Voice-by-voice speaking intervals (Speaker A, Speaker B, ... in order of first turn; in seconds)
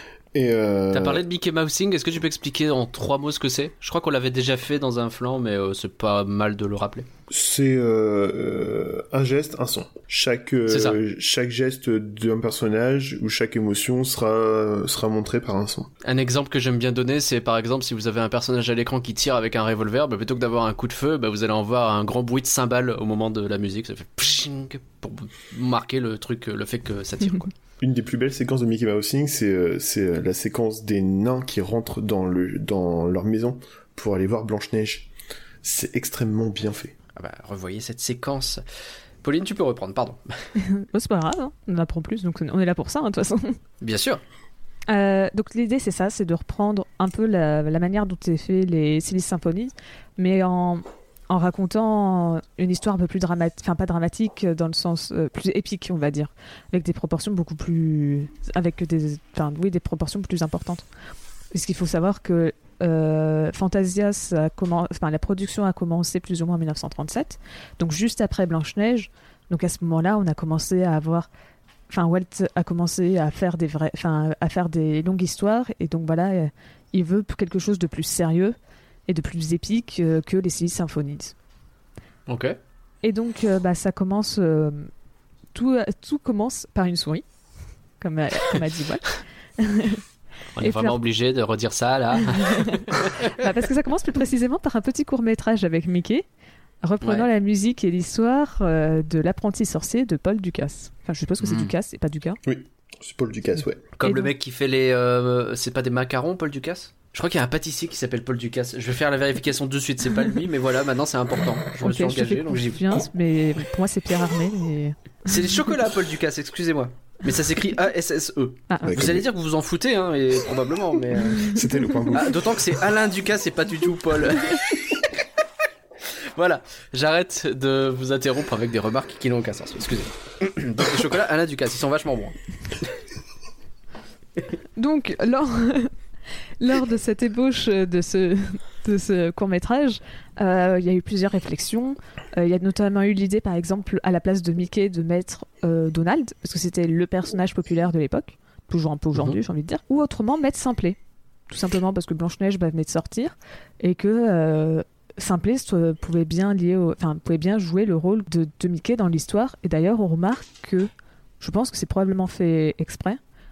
Speaker A: 0.3-1.2, 7.3-15.9, 27.8-35.1, 35.6-36.9, 102.4-103.8, 118.8-119.2, 121.4-122.8
Speaker B: 0.9-7.1, 10.7-11.0, 16.0-27.5, 37.1-38.6, 39.2-40.5, 43.8-44.2, 82.3-82.6, 90.5-93.3, 97.0-97.3, 101.4-101.7, 104.0-113.0, 115.2-121.5, 122.1-125.0, 126.3-132.3
Speaker C: 40.6-43.6, 44.9-60.8, 61.5-71.3, 71.9-78.5, 79.1-81.3, 83.0-84.9, 85.5-87.2, 88.0-90.0, 90.6-91.0, 92.2-96.2, 96.8-102.4, 104.0-104.3, 111.8-115.6, 118.7-119.0, 134.8-135.9, 136.6-151.0, 151.5-160.9, 161.4-163.2